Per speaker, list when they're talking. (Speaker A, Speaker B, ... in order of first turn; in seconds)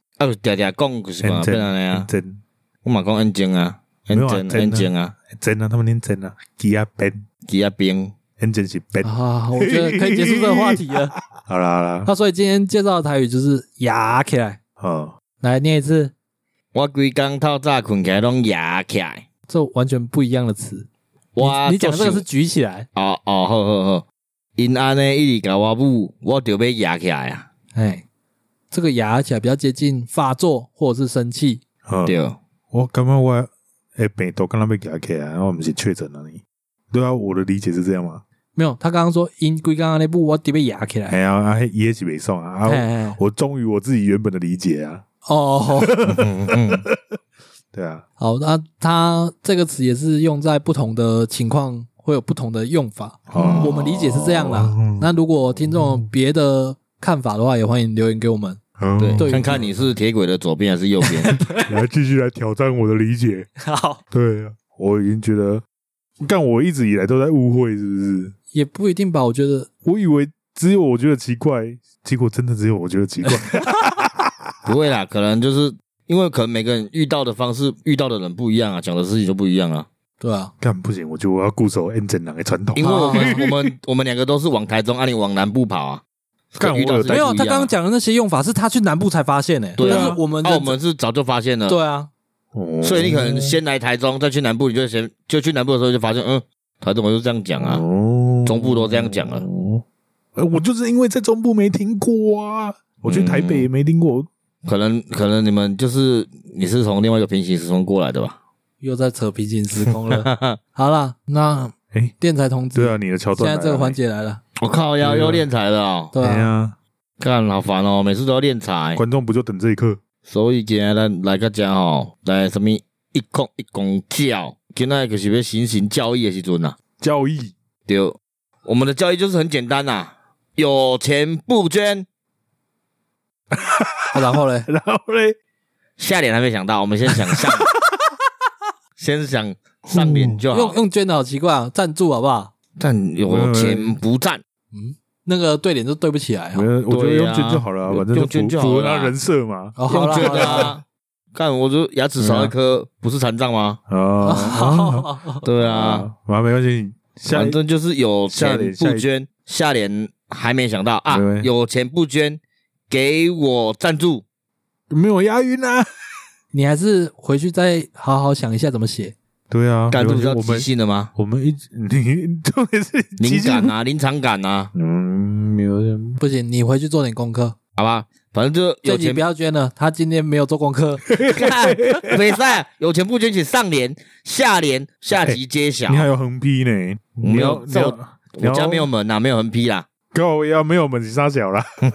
Speaker A: 0.2-2.1, 2.8-5.1, 7.5-8.1, 16.7-19.2, 21.4-22.2, 22.9-24.0, 24.6-27.5, 32.0-32.4, 46.1-46.8, 53.4-53.7, 59.0-61.4, 74.6-79.9, 82.7-87.7, 89.8-91.8, 92.8-97.8, 98.4-99.5, 103.0-103.7, 104.6-108.3, 109.9-110.6, 114.6-116.1, 117.2-119.0, 120.2-126.8, 127.9-132.0, 136.0-137.7, 139.0-140.8, 142.8-144.4, 146.9-149.1, 149.9-150.8, 151.3-153.8, 155.4-156.1, 157.3-164.2, 169.9-171.1, 173.2-174.7, 177.8-179.2, 181.2-186.1, 187.2-189.8
Speaker B: 1.2-2.4, 4.1-7.2, 8.4-12.1, 14.8-15.1, 31.9-32.2, 32.7-38.2, 41.1-45.0, 45.7-47.0, 47.7-48.0, 53.3-55.1, 55.7-56.0, 58.8-59.7, 61.6-63.5, 64.1-65.6, 66.2-68.3, 69.8-74.5, 80.6-83.7, 86.6-87.3, 89.8-90.2, 92.5-93.6, 97.6-99.8, 100.3-104.3, 112.7-114.0, 115.0-115.5, 116.2-116.8, 119.0-120.0, 127.0-127.5, 133.5-135.3, 137.1-137.9, 139.9-140.4, 143.3-143.9, 146.5-150.7, 152.2-152.5, 153.9-157.6, 158.3-159.1, 161.1-161.5, 164.9-165.9, 169.5-173.7, 174.7-176.2, 181.1-182.3, 185.1-188.9, 190.1-191.7
Speaker C: 9.0-11.1, 12.0-14.6, 15.4-16.1, 19.5-20.9, 21.4-22.9, 27.7-28.0, 28.7-31.6, 38.5-41.1, 42.6-43.2, 45.2-46.0, 48.2-58.6, 59.2-59.6, 61.0-61.7, 63.6-64.0, 68.5-69.7, 73.3-73.9, 80.2-80.5, 82.8-83.4, 87.1-90.8, 91.7-92.1, 108.8-114.4, 116.1-116.5, 134.1-134.7, 140.5-142.5, 144.7-146.7, 149.8-150.7, 154.2-155.4, 166.5-169.1, 176.2-177.6, 178.8-181.0